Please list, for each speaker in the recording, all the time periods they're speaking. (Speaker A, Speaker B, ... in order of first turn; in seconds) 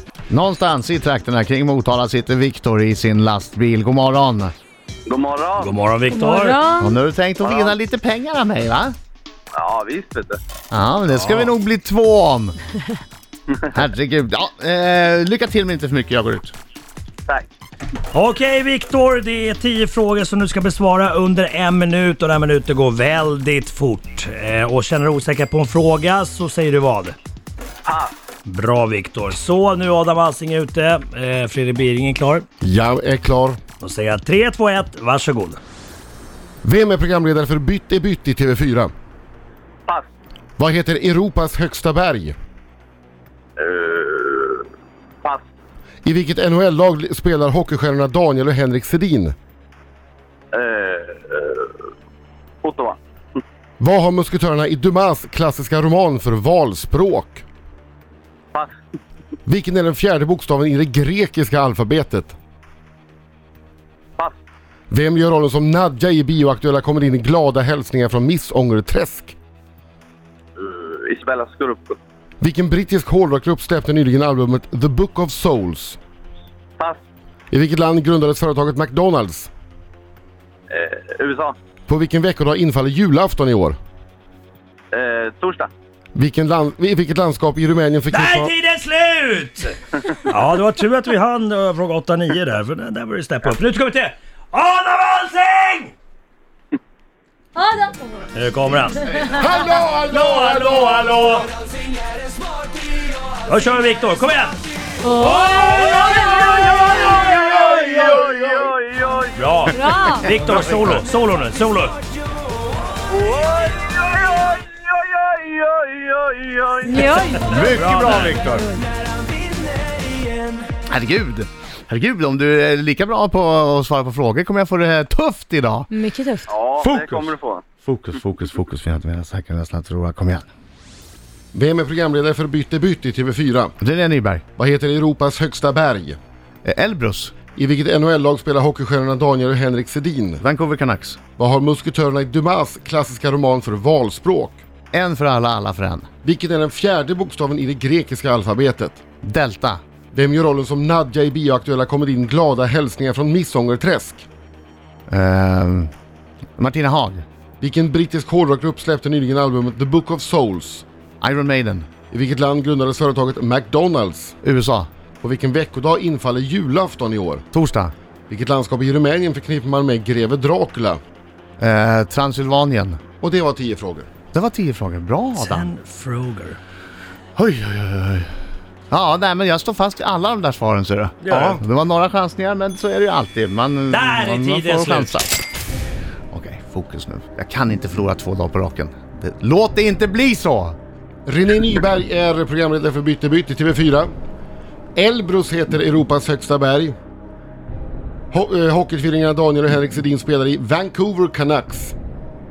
Speaker A: 0.3-4.5, 6.8-8.9, 10.7-12.6, 13.7-16.5, 117.4-118.8, 120.9-125.9, 126.8-130.4, 133.8-134.4, 136.6-137.3, 140.4-141.2, 144.9-146.1, 149.2-149.8, 155.1-155.9, 156.6-157.2, 161.2-161.9, 164.4-164.9, 167.5-167.9, 171.6-173.0, 174.3-175.7, 177.3-178.3, 178.9-185.4, 186.3-190.8
Speaker B: 5.1-5.7, 7.4-7.8, 9.5-10.4, 27.8-28.1, 43.6-44.7, 50.5-51.7, 52.6-53.0, 70.6-72.0, 80.7-81.5, 84.9-85.7, 105.5-109.3, 113.1-117.2, 126.5-127.6
Speaker C: 5.6-6.6, 11.1-11.5, 18.1-27.1, 28.4-32.5, 33.8-35.6, 88.1-95.9, 98.3-99.2, 100.1-101.4, 103.5-104.6, 105.2-106.3, 109.3-112.0, 117.5-118.4, 175.3-176.6, 181.2-181.6, 183.9-185.2
Speaker D: 6.1-6.9, 97.6-98.2, 109.7-110.2, 116.8-117.6, 125.9-126.5
Speaker E: 32.6-33.6, 36.6-38.9, 40.6-42.4, 46.0-49.3, 53.8-57.4, 59.5-62.3, 64.9-69.3, 72.4-76.0, 77.5-79.5, 81.9-83.8, 86.1-88.5, 99.2-101.5, 107.8-108.2, 131.5-133.7, 134.6-136.2, 137.5-140.4, 141.4-144.6, 146.2-149.0, 150.1-154.2, 157.6-160.8, 162.1-164.4, 165.2-167.4, 168.3-171.0, 173.2-174.1, 191.2-194.1, 194.9-196.9, 198.3-201.9